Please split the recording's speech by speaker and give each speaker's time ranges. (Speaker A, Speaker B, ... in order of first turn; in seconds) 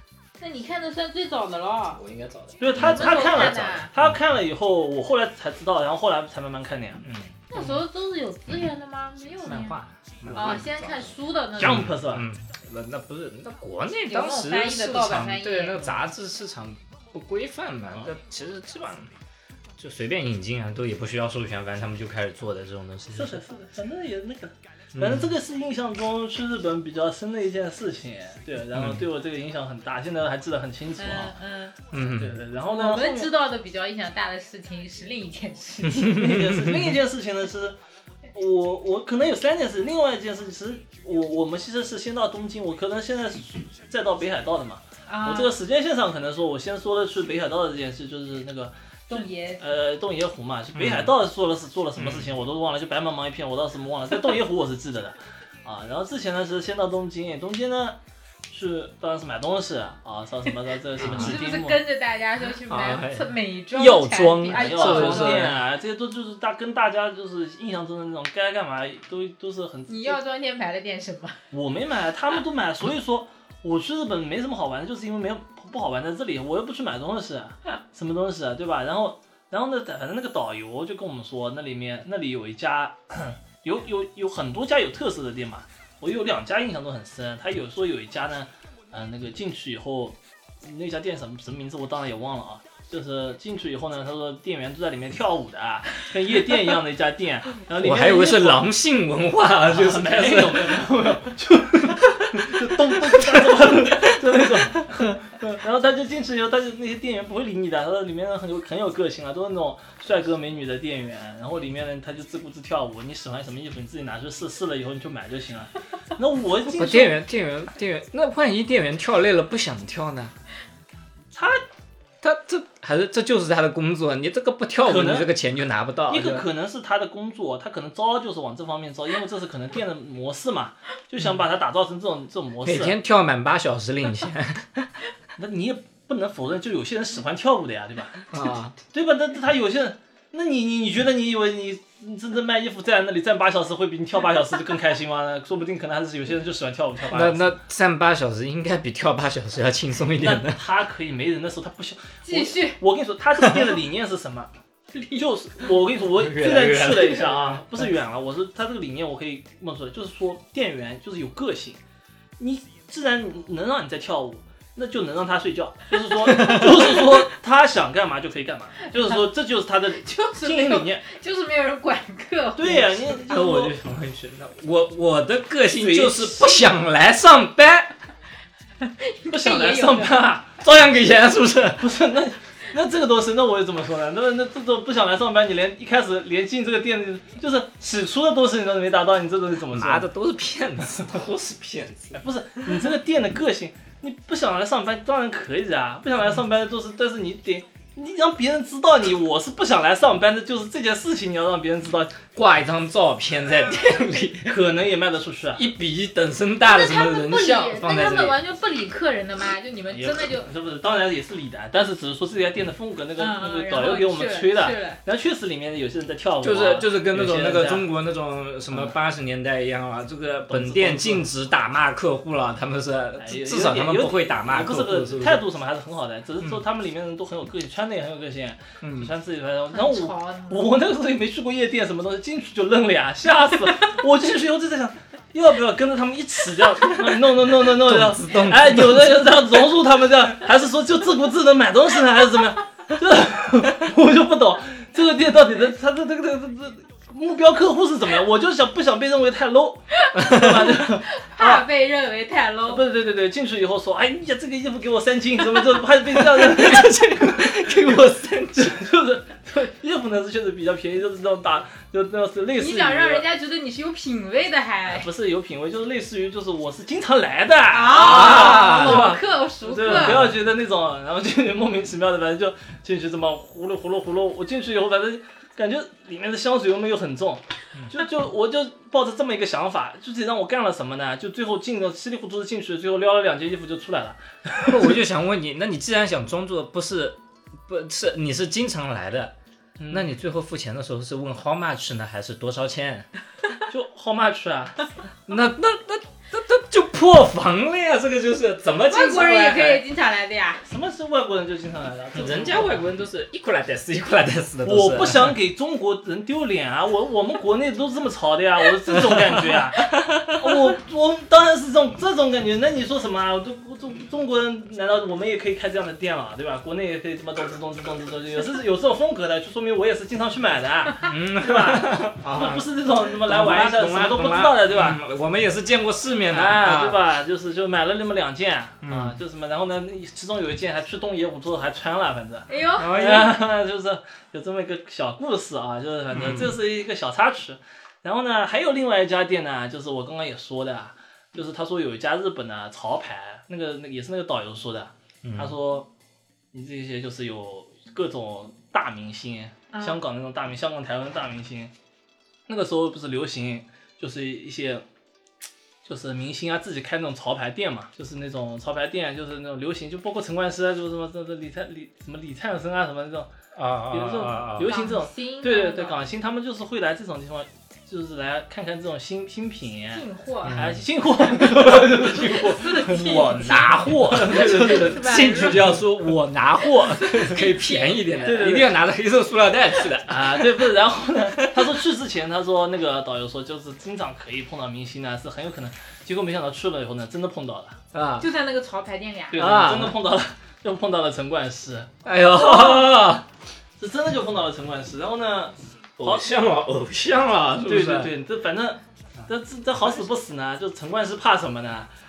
Speaker A: 0.4-2.0, 2.7-3.9, 7.5-9.8, 10.3-11.9, 14.1-16.0, 31.0-31.8, 32.7-36.4, 45.1-45.5, 49.1-49.6, 61.0-65.5, 69.9-71.4, 152.2-152.8, 154.9-155.2, 170.0-172.9, 178.8-180.3, 206.7-210.5, 213.2-215.0, 229.7-230.7, 249.9-252.8, 262.6-265.1, 267.7-270.3, 298.9-300.6, 332.5-333.0, 349.7-350.0, 364.6-366.0, 369.9-370.6, 372.1-375.8, 376.8-378.3, 388.2-389.5
Speaker B: 2.0-4.1, 7.0-7.8, 9.4-19.1, 19.8-23.4, 24.9-25.4, 28.7-29.0, 31.9-32.4, 35.8-37.0, 50.8-51.1, 52.0-52.3, 61.0-61.4, 62.7-65.6, 97.8-100.9, 101.8-104.2, 116.7-120.3, 122.2-126.5, 132.6-134.9, 138.3-138.8, 147.1-150.6, 156.2-157.6, 166.3-166.9, 173.0-177.9, 180.6-181.9, 189.7-192.2, 202.3-204.6, 205.6-208.4, 216.4-225.5, 228.8-229.1, 237.5-239.3, 250.2-250.7, 256.1-258.8, 267.9-269.2, 269.8-270.4, 284.6-289.3, 289.9-293.1, 295.3-299.8, 302.1-305.4, 309.1-309.4, 309.9-310.5, 321.0-327.0, 328.8-329.2, 332.8-333.4, 336.1-336.6, 345.2-345.6, 363.6-364.7, 370.4-370.9, 371.6-371.9, 372.9-380.7, 381.3-381.8, 387.9-388.3, 389.4-390.0, 392.1-393.2, 396.0-398.1
Speaker C: 2.6-7.0, 10.3-10.6, 11.6-12.3, 23.1-31.3, 32.2-33.3, 36.0-37.8, 38.3-58.0, 58.5-61.8, 64.5-70.2, 71.5-98.6, 99.7-117.2, 121.3-121.6, 124.8-125.3, 126.1-133.0, 135.4-138.3, 138.9-147.5, 150.2-154.5, 155.2-161.8, 162.4-171.0, 172.6-173.8, 175.7-176.6, 179.3-180.6, 181.8-190.1, 192.1-202.2, 204.5-205.7, 209.9-217.9, 220.5-221.3, 223.2-251.7, 252.7-263.3, 264.9-285.0, 289.8-290.1, 293.7-294.9, 300.7-302.8, 304.6-325.0, 326.3-345.9, 346.5-351.7, 352.5-354.8, 355.9-363.3, 363.9-375.8, 378.2-378.8, 380.1-387.8, 389.3-393.0, 393.8-396.3, 397.7-401.9